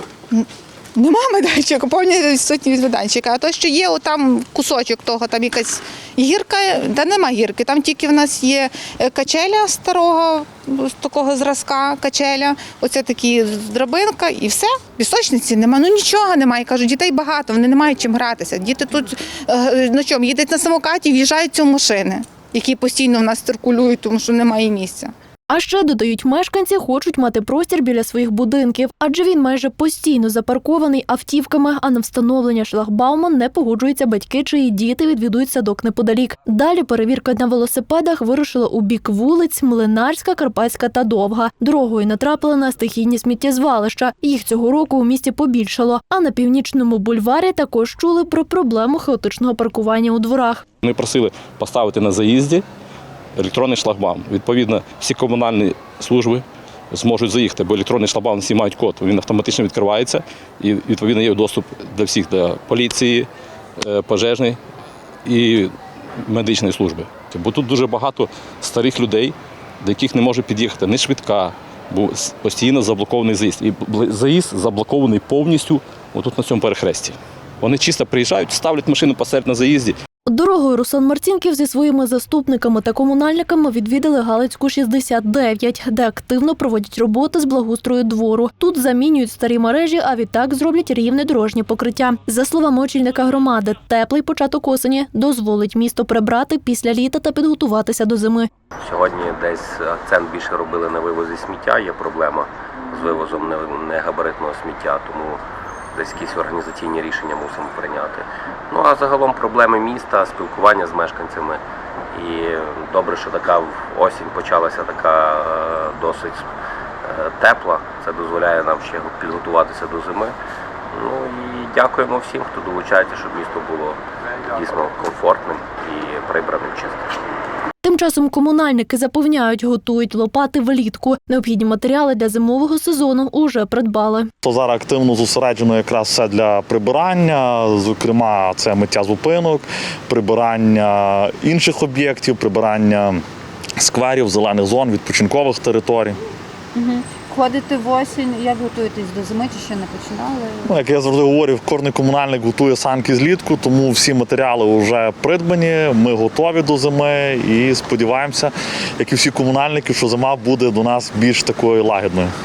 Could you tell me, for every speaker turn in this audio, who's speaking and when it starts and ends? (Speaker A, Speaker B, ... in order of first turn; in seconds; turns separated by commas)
Speaker A: 0.3-25.1, Speaker B: 25.5-50.6, Speaker C: 50.8-52.6, Speaker C: 53.4-63.3, Speaker C: 63.8-64.6, Speaker C: 65.2-65.7, Speaker C: 66.3-80.0, Speaker B: 80.3-98.5, Speaker D: 98.8-105.4, Speaker D: 105.9-116.5, Speaker D: 117.0-120.3, Speaker D: 120.9-127.2, Speaker B: 127.8-134.3, Speaker E: 134.4-143.2, Speaker E: 143.8-146.2, Speaker F: 146.8-150.7, Speaker E: 150.7-162.3